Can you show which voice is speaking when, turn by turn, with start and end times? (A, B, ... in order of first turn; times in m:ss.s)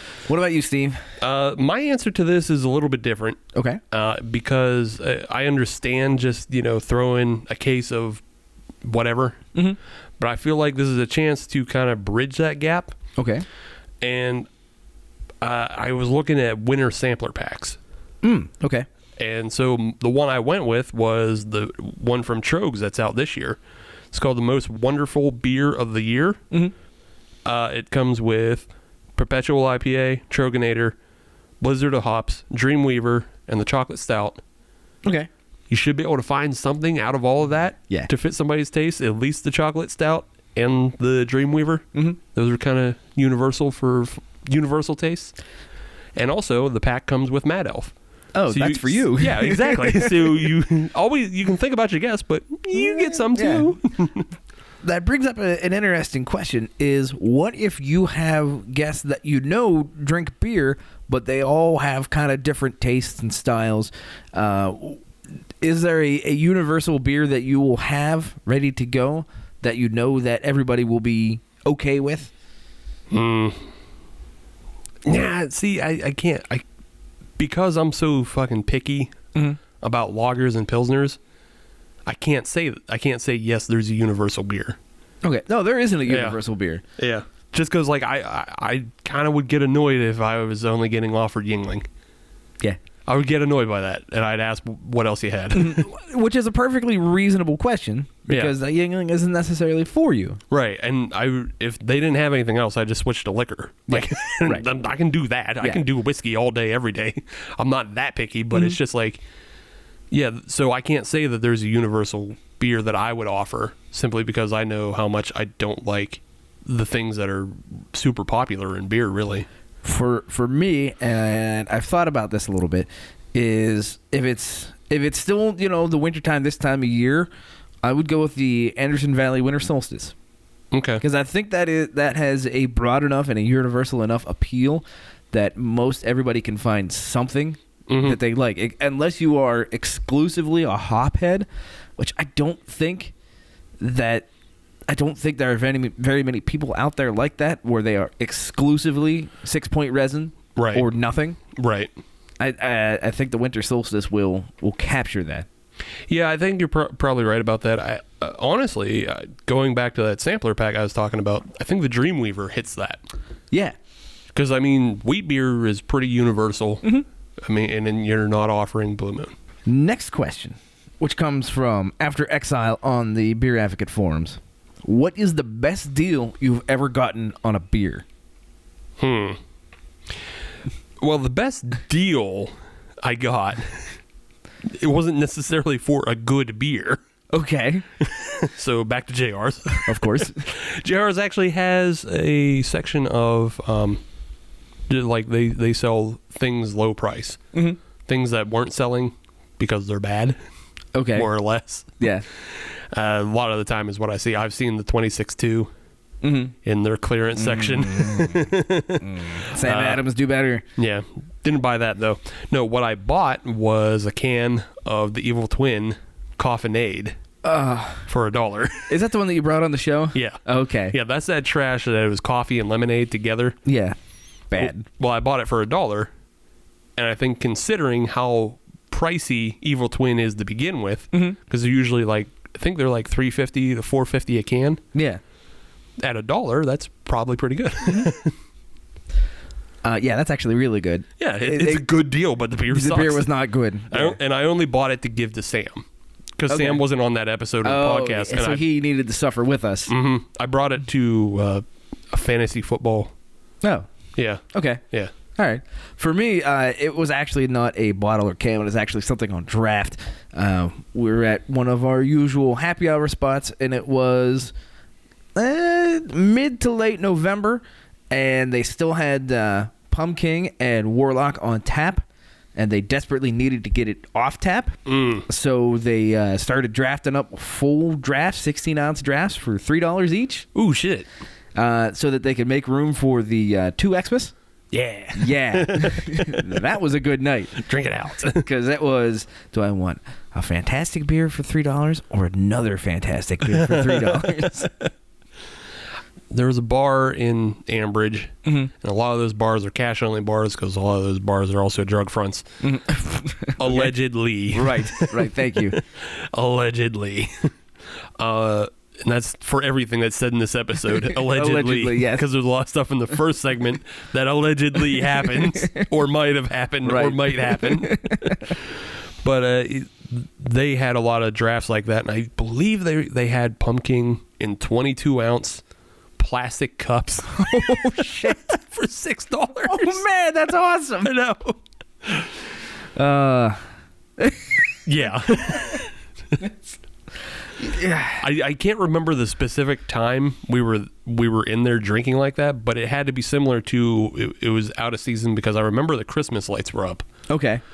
0:00.3-0:01.0 A
0:01.2-0:03.4 B
0:03.5-0:03.8 A
0:03.9-0:08.2 B
0:08.8-0:09.5 B
0:10.2-0:13.0 B
0:13.2-0:13.4 A
0:14.0-0:14.5 B
0:15.4-0:17.8 B
0:18.2-0:18.9 A
0:19.2-0:23.6 B
0:24.1-0:26.4 B
0:27.4-0:31.0 B
0:31.6-0:34.4 B
0:35.0-0:35.3 A
0:35.7-0:45.4 B
0:46.2-0:47.9 B
0:48.4-0:50.5 A
0:48.5-0:54.3 B
0:52.7-0:53.7 A
0:54.8-1:05.0 A
1:05.6-1:12.3 A
1:13.1-1:13.7 B
1:15.0-1:16.6 B
1:17.4-1:19.2 B
1:19.8-1:21.2 B
1:22.1-1:24.8 B
1:25.2-1:26.8 A
1:26.1-1:26.4 B
1:27.0-1:31.9 B
1:33.1-1:35.9 B
1:35.5-1:40.4 A
1:38.3-1:38.5 B
1:40.5-1:49.2 B
1:43.9-1:44.7 A
1:50.1-1:59.5 B
1:59.8-2:07.3 A
2:07.8-2:10.1 A
2:10.7-2:11.0 B
2:11.0-2:21.5 A
2:17.9-2:18.2 B
2:22.0-2:23.1 A
2:23.8-2:24.3 A
2:24.9-2:31.4 A
2:30.6-2:30.9 B
2:31.6-2:31.9 B
2:32.4-2:35.5 A
2:36.1-2:43.0 B
2:44.3-2:49.4 B
2:49.7-2:58.0 A
2:59.0-2:59.4 B
3:01.0-3:04.0 B
3:04.7-3:07.0 B
3:07.3-3:07.8 A
3:08.0-3:14.0 B
3:09.8-3:10.4 A
3:14.9-3:17.4 B
3:17.5-3:17.8 A
3:18.1-3:20.4 B
3:20.9-3:21.3 A
3:21.1-3:25.7 B
3:22.0-3:22.2 A
3:26.2-3:26.6 A
3:26.6-3:30.0 B
3:27.4-3:30.6 A
3:30.8-3:37.2 B
3:37.4-3:38.1 A
3:38.1-3:38.9 B
3:38.9-3:41.0 A
3:40.1-3:40.4 B
3:40.9-3:43.6 B
3:43.6-3:44.0 A
3:44.5-3:44.8 A
3:44.6-3:46.1 B
3:47.0-3:54.8 B
3:54.9-3:55.2 A
3:56.0-3:58.4 B
3:59.8-4:01.9 A
4:01.2-4:03.3 B
4:02.7-4:04.2 A
4:03.9-4:08.6 B
4:06.5-4:06.8 A
4:07.6-4:09.9 A
4:09.9-4:13.1 B
4:13.6-4:13.9 A
4:14.2-4:15.1 B
4:14.5-4:14.8 A
4:15.4-4:24.5 A
4:25.4-4:40.5 A
4:34.9-4:35.3 B
4:40.6-4:41.1 B
4:41.6-4:44.3 A
4:44.7-4:46.5 B
4:45.2-4:47.6 A
4:47.6-4:48.4 B
4:48.2-4:54.7 A
4:53.5-4:54.9 B
4:56.3-5:02.5 B
5:02.6-5:03.9 A
5:03.6-5:07.6 B
5:04.5-5:05.8 A
5:08.2-5:25.6 B
5:11.1-5:12.2 A
5:15.0-5:15.8 A
5:16.8-5:18.5 A
5:26.2-5:30.0 B
5:27.4-5:28.4 A
5:29.7-5:31.1 A
5:31.0-5:32.3 B
5:33.0-5:33.6 A
5:34.2-5:34.6 A
5:34.9-5:36.4 B
5:35.4-5:35.8 A
5:37.6-5:38.2 A
5:38.2-5:47.0 B
5:47.3-5:47.6 A